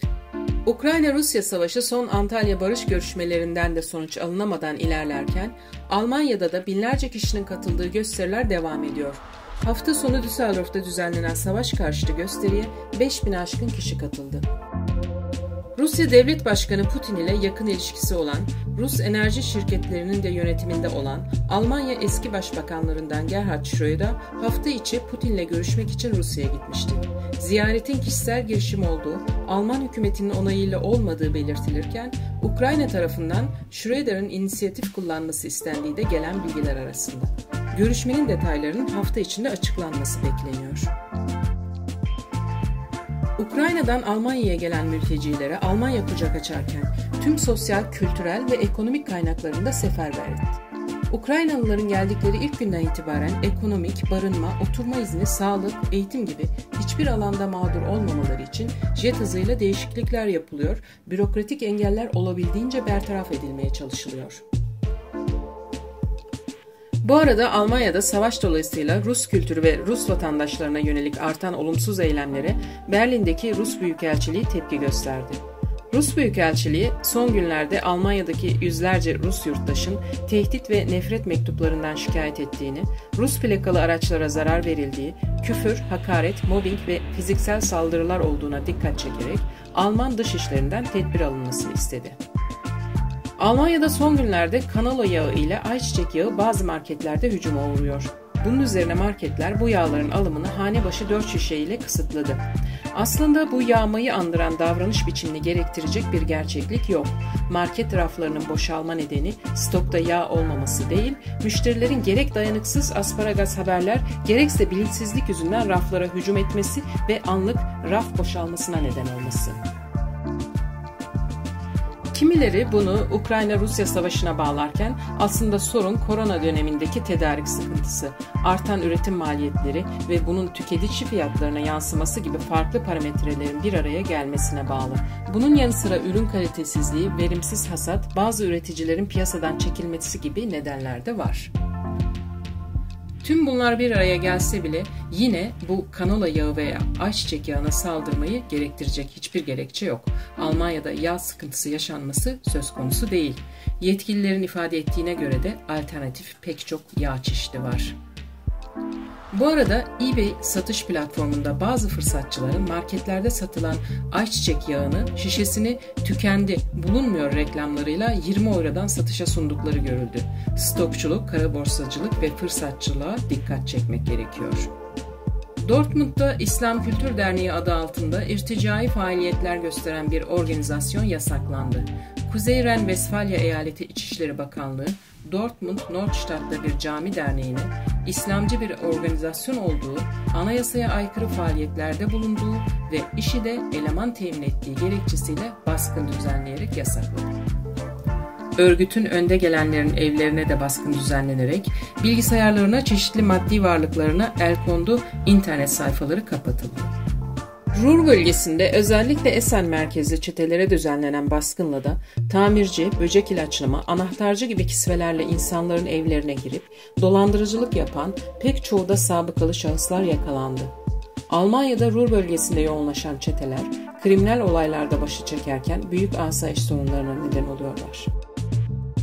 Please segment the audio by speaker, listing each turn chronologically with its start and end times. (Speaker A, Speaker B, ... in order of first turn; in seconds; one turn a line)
Speaker A: 0.6-14.4
Speaker A: 15.8-40.9
Speaker A: 43.4-64.4
Speaker A: 67.0-92.2
Speaker A: 93.4-119.6
Speaker A: 122.1-141.5
Speaker A: 143.2-158.0
Speaker A: 159.3-174.7
Speaker A: 175.6-197.3
Speaker A: 198.6-206.9
Speaker A: 207.7-220.7
Speaker A: 221.3-228.1